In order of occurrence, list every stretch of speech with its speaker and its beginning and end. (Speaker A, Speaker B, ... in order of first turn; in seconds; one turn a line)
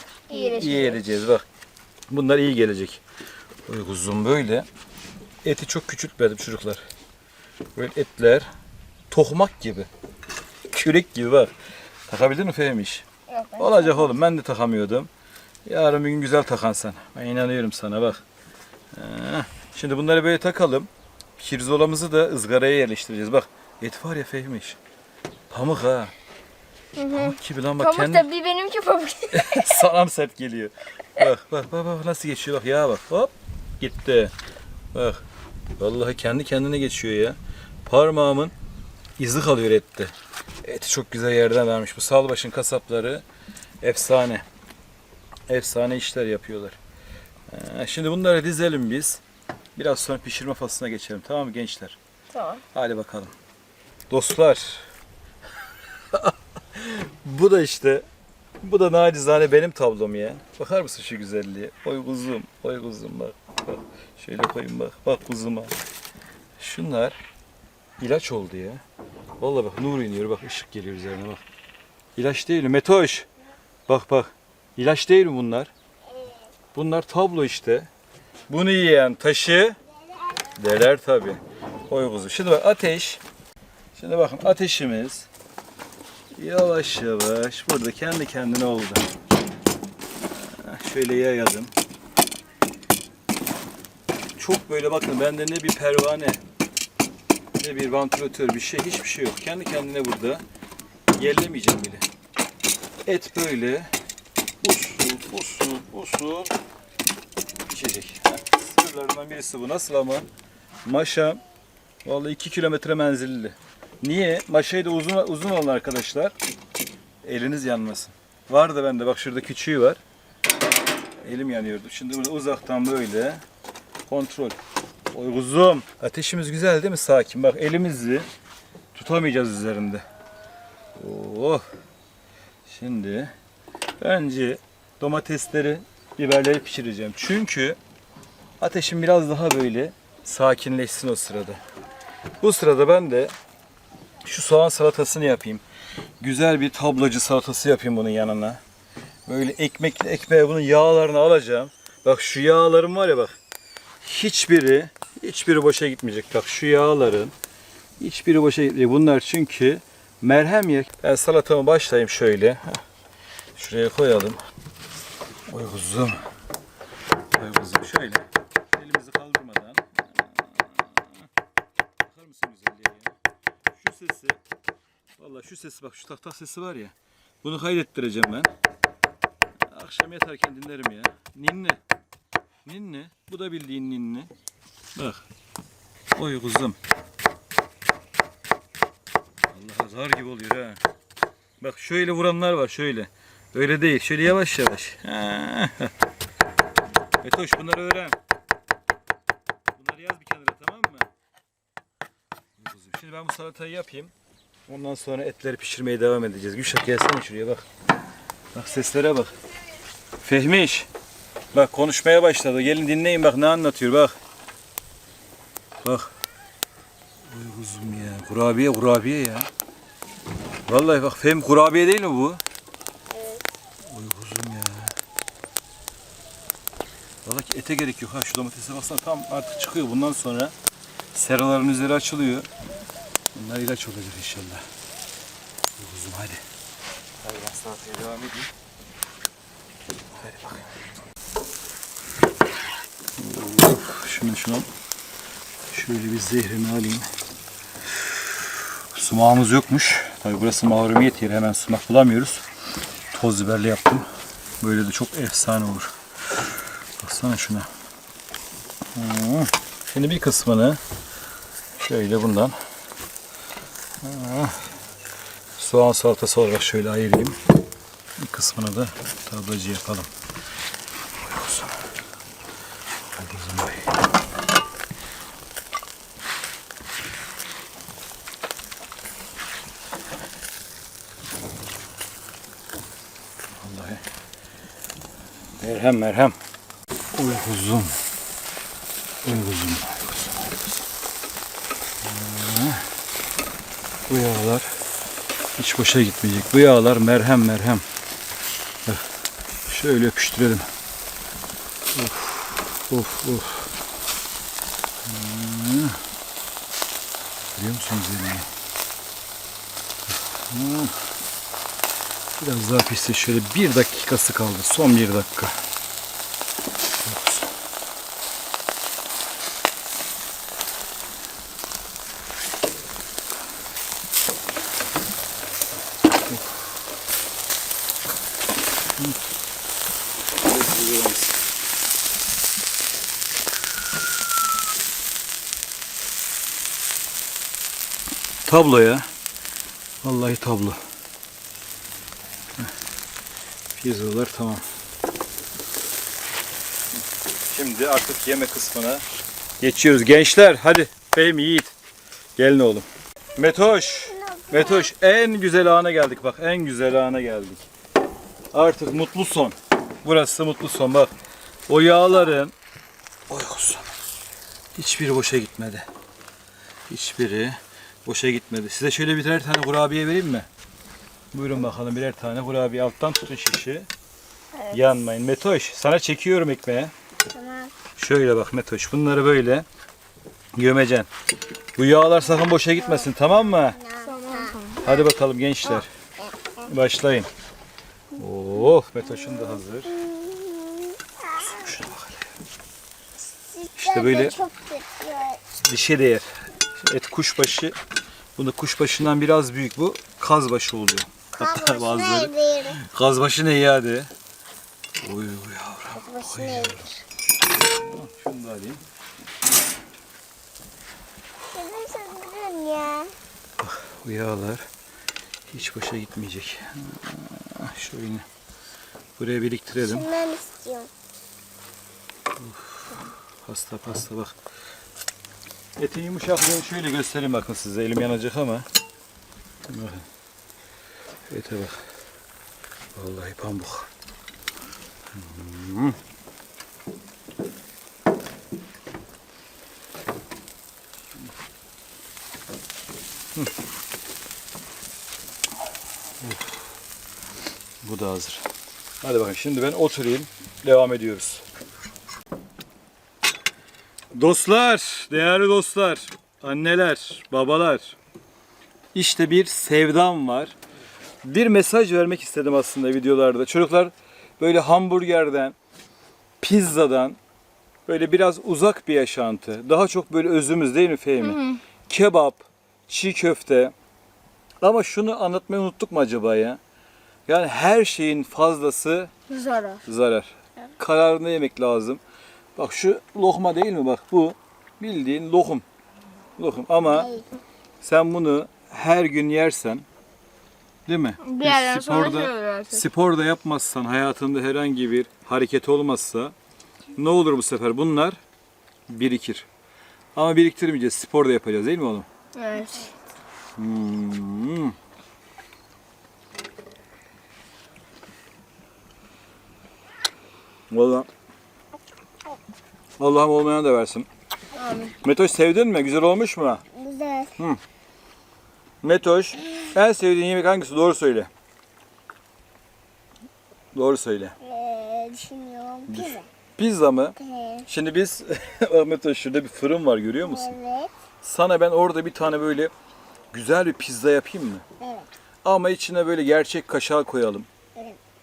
Speaker A: 0.3-1.0
Speaker B: 0.3-1.4
Speaker B: 2.1-3.0
Speaker B: 3.7-4.7
Speaker B: 5.4-6.8
Speaker B: 7.8-8.5
Speaker B: 9.1-9.9
Speaker B: 10.7-11.5
Speaker B: 12.1-13.1
Speaker C: 13.3-13.9
Speaker B: 13.6-15.1
Speaker B: 15.7-18.2
Speaker B: 18.9-24.8
Speaker B: 25.5-26.1
Speaker A: 27.0-29.8
Speaker B: 27.1-28.3
Speaker B: 29.3-34.3
Speaker B: 34.9-35.2
Speaker B: 35.8-38.5
Speaker B: 39.2-40.1
Speaker B: 40.6-43.2
Speaker B: 43.8-44.4
Speaker B: 45.5-46.8
Speaker B: 47.5-49.2
Speaker B: 49.8-52.0
Speaker A: 52.4-52.6
Speaker B: 52.7-53.3
Speaker B: 54.1-54.9
Speaker B: 56.1-58.1
Speaker B: 58.6-65.7
Speaker B: 66.6-67.2
Speaker B: 68.0-68.8
Speaker B: 69.4-71.4
Speaker B: 72.2-73.3
Speaker B: 73.9-75.7
Speaker C: 76.2-76.4
Speaker B: 76.7-77.9
Speaker B: 78.5-79.8
Speaker B: 80.5-83.2
Speaker B: 84.0-85.3
Speaker B: 86.3-89.1
Speaker B: 90.3-91.7
Speaker B: 94.4-96.4
Speaker B: 97.6-100.4
Speaker B: 101.2-102.0
Speaker B: 103.1-103.9
Speaker B: 104.6-106.5
Speaker B: 107.7-110.3
Speaker B: 110.8-111.4
Speaker B: 112.0-116.3
Speaker B: 117.2-120.0
Speaker B: 121.2-123.4
Speaker B: 124.1-124.6
Speaker B: 125.1-128.3
Speaker B: 128.9-130.0
Speaker B: 131.0-131.7
Speaker B: 132.7-133.3
Speaker B: 134.0-137.8
Speaker B: 138.6-141.6
Speaker B: 142.4-143.3
Speaker B: 144.2-145.6
Speaker B: 146.2-148.6
Speaker B: 149.3-153.4
Speaker B: 154.0-157.3
Speaker B: 158.0-162.8
Speaker B: 163.6-164.4
Speaker B: 165.5-166.2
Speaker B: 167.3-171.3
Speaker B: 172.0-173.2
Speaker B: 173.8-174.4
Speaker B: 175.2-178.5
Speaker B: 179.7-181.8
Speaker B: 182.7-184.3
Speaker B: 185.0-185.2
Speaker B: 186.2-186.8
Speaker B: 189.5-190.8
Speaker B: 191.6-195.9
Speaker B: 197.2-198.2
Speaker B: 199.8-201.1
Speaker B: 202.6-204.1
Speaker B: 204.7-207.7
Speaker B: 208.5-209.3
Speaker B: 210.2-210.9
Speaker B: 211.5-214.2
Speaker B: 215.8-216.1
Speaker B: 217.3-219.5
Speaker B: 220.7-222.4
Speaker B: 223.9-224.9
Speaker B: 227.2-230.5
Speaker B: 231.1-232.5
Speaker B: 233.3-234.7
Speaker B: 235.8-236.4
Speaker B: 237.2-238.5
Speaker B: 240.2-240.7
Speaker B: 243.2-244.7
Speaker B: 245.7-247.1
Speaker B: 248.9-252.4
Speaker B: 253.1-254.1
Speaker B: 254.6-255.9
Speaker B: 257.0-257.7
Speaker B: 258.9-260.8
Speaker B: 261.8-262.6
Speaker B: 264.0-264.6
Speaker B: 265.6-267.4
Speaker B: 268.2-270.1
Speaker B: 271.2-271.8
Speaker B: 273.1-273.9
Speaker B: 283.6-284.0
Speaker B: 285.6-286.4
Speaker B: 287.1-288.0
Speaker B: 289.2-290.6
Speaker B: 292.0-292.9
Speaker B: 294.1-294.7
Speaker B: 295.6-297.9
Speaker B: 299.7-300.7
Speaker B: 301.9-303.7
Speaker B: 305.1-306.0
Speaker B: 307.6-308.5
Speaker B: 310.1-310.9
Speaker B: 312.4-315.6
Speaker B: 317.0-317.5
Speaker B: 330.4-331.4
Speaker B: 338.5-339.1
Speaker B: 340.0-340.8
Speaker B: 343.8-344.6
Speaker B: 347.5-349.0
Speaker B: 349.6-351.7
Speaker B: 352.4-357.7
Speaker C: 353.5-354.9
Speaker B: 358.5-361.1
Speaker B: 361.7-362.5
Speaker B: 363.3-363.9
Speaker B: 364.8-365.9
Speaker B: 366.9-370.5
Speaker B: 371.3-373.9
Speaker A: 374.6-374.9
Speaker B: 374.7-376.9
Speaker C: 377.3-377.8
Speaker B: 378.0-379.7
Speaker B: 380.6-381.1
Speaker B: 381.8-383.8
Speaker C: 383.7-384.6
Speaker A: 384.0-385.0
Speaker B: 384.8-385.9
Speaker B: 386.6-387.3
Speaker B: 388.2-390.0
Speaker C: 389.9-391.7
Speaker B: 391.4-392.3
Speaker C: 393.4-395.4
Speaker B: 393.8-394.4
Speaker B: 395.6-396.3
Speaker B: 396.8-397.8
Speaker B: 398.4-404.1
Speaker C: 401.3-402.8
Speaker B: 405.0-406.9
Speaker C: 406.0-407.0
Speaker B: 407.7-408.8
Speaker C: 411.5-413.1
Speaker B: 413.6-414.6
Speaker B: 415.5-418.2
Speaker B: 419.2-420.1
Speaker C: 419.8-420.9
Speaker B: 422.4-424.4
Speaker B: 425.8-428.7
Speaker B: 429.7-430.1
Speaker B: 431.3-431.8
Speaker B: 432.9-433.9
Speaker B: 435.1-436.0
Speaker B: 446.2-446.6
Speaker B: 447.8-448.4
Speaker B: 449.0-451.4
Speaker B: 454.1-458.0
Speaker B: 458.9-460.6
Speaker B: 461.2-465.6
Speaker B: 466.4-467.2
Speaker B: 467.9-473.7
Speaker A: 471.2-471.6
Speaker B: 474.6-476.6
Speaker B: 477.3-479.1
Speaker A: 479.3-479.8
Speaker C: 479.3-479.7
Speaker B: 479.9-482.0
Speaker B: 482.6-485.6
Speaker B: 486.4-487.1
Speaker C: 486.9-487.2
Speaker B: 487.8-489.9
Speaker B: 490.9-496.3
Speaker A: 491.2-492.8
Speaker B: 497.0-498.2
Speaker B: 498.9-499.5
Speaker B: 500.1-502.1
Speaker A: 502.4-502.9
Speaker B: 503.6-504.8
Speaker B: 510.7-511.1
Speaker B: 513.0-514.1
Speaker A: 514.5-515.0
Speaker B: 515.0-516.6
Speaker C: 516.7-517.4
Speaker B: 518.8-521.3
Speaker B: 523.7-524.4
Speaker C: 524.4-526.3
Speaker B: 525.9-527.2
Speaker C: 527.2-527.7
Speaker B: 527.7-530.5
Speaker C: 530.2-530.9
Speaker B: 531.2-532.7
Speaker B: 533.3-534.6
Speaker C: 534.8-535.1
Speaker B: 535.4-537.5